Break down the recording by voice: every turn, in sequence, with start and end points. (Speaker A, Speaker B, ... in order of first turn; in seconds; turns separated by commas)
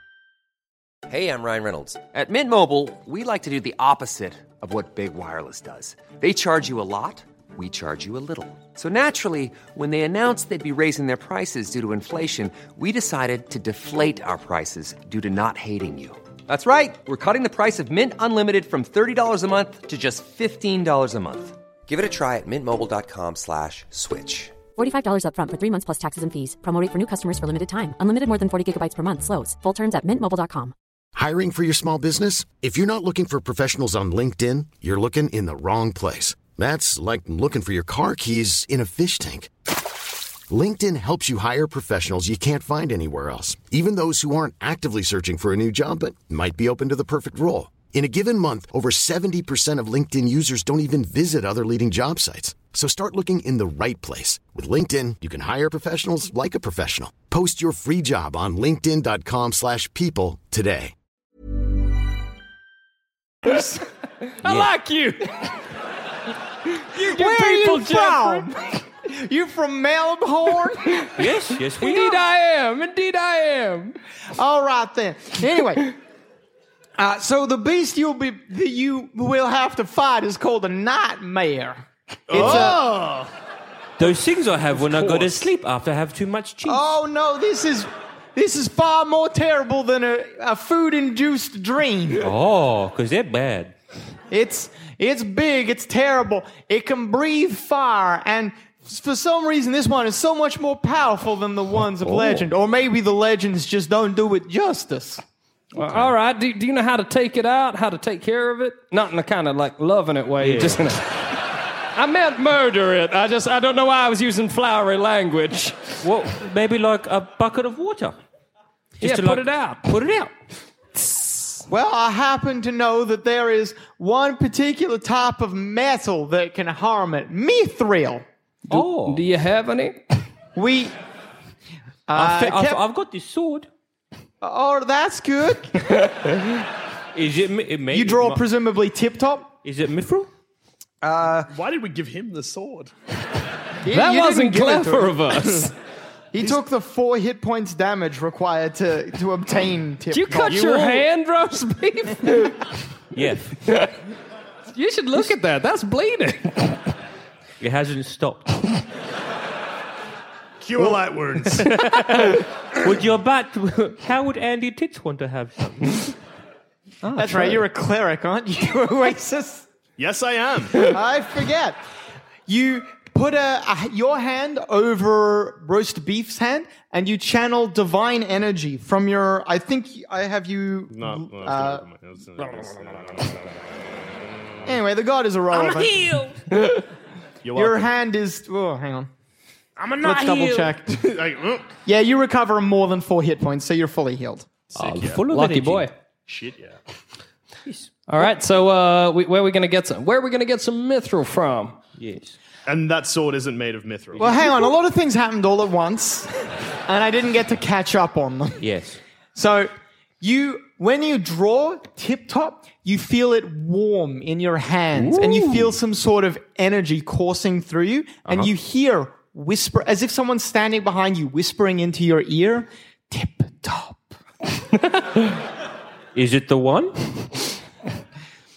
Speaker A: 1.1-24.5, Speaker B: 24.8-30.7, Speaker C: 31.1-39.5, Speaker C: 40.5-60.9, Speaker D: 63.4-63.7, Speaker E: 64.4-65.6, Speaker F: 64.4-64.7, Speaker E: 66.7-68.5, Speaker D: 66.9-71.0, Speaker E: 71.0-74.0, Speaker F: 71.2-72.2, Speaker D: 74.3-75.9, Speaker D: 77.0-82.8, Speaker G: 82.3-83.3, Speaker F: 82.4-82.6, Speaker F: 84.0-86.8, Speaker D: 86.6-92.3, Speaker F: 92.2-93.7, Speaker D: 94.3-105.2, Speaker F: 102.0-102.4, Speaker E: 105.7-111.0, Speaker F: 105.8-106.1, Speaker F: 110.4-110.9, Speaker E: 111.9-115.8, Speaker F: 116.0-118.2, Speaker F: 119.0-120.3, Speaker E: 119.0-119.8, Speaker D: 121.7-128.2, Speaker E: 128.7-130.0, Speaker F: 128.7-129.2, Speaker D: 130.5-130.9, Speaker D: 132.1-132.8, Speaker F: 132.1-133.7, Speaker D: 134.4-135.9, Speaker F: 137.1-138.4, Speaker D: 137.9-139.5, Speaker F: 139.6-140.3, Speaker D: 141.0-141.5, Speaker G: 141.5-142.9, Speaker D: 143.8-145.5, Speaker E: 143.9-145.7, Speaker D: 146.3-150.9, Speaker E: 150.1-152.7, Speaker F: 150.6-150.9, Speaker F: 153.1-153.6, Speaker E: 153.6-153.9, Speaker E: 154.7-156.8, Speaker F: 157.6-158.7, Speaker G: 160.6-161.7, Speaker F: 161.5-166.1, Speaker E: 167.0-167.5, Speaker D: 167.1-169.7, Speaker G: 170.0-170.9, Speaker D: 170.8-171.8, Speaker D: 172.5-181.8, Speaker G: 180.9-183.3, Speaker F: 182.4-182.7, Speaker D: 184.6-186.0, Speaker F: 185.5-186.4, Speaker G: 187.4-187.9, Speaker D: 187.5-189.1, Speaker F: 189.8-190.8, Speaker D: 190.0-191.1, Speaker G: 191.0-191.7, Speaker D: 191.8-194.5, Speaker F: 194.7-195.9, Speaker G: 194.8-195.2, Speaker E: 195.3-195.9, Speaker G: 196.3-196.8, Speaker E: 198.1-201.8, Speaker F: 202.0-202.3, Speaker G: 202.7-204.3, Speaker D: 204.2-206.3, Speaker D: 206.8-208.7, Speaker F: 208.6-209.0, Speaker D: 209.3-224.1, Speaker F: 215.1-215.6, Speaker F: 226.1-227.3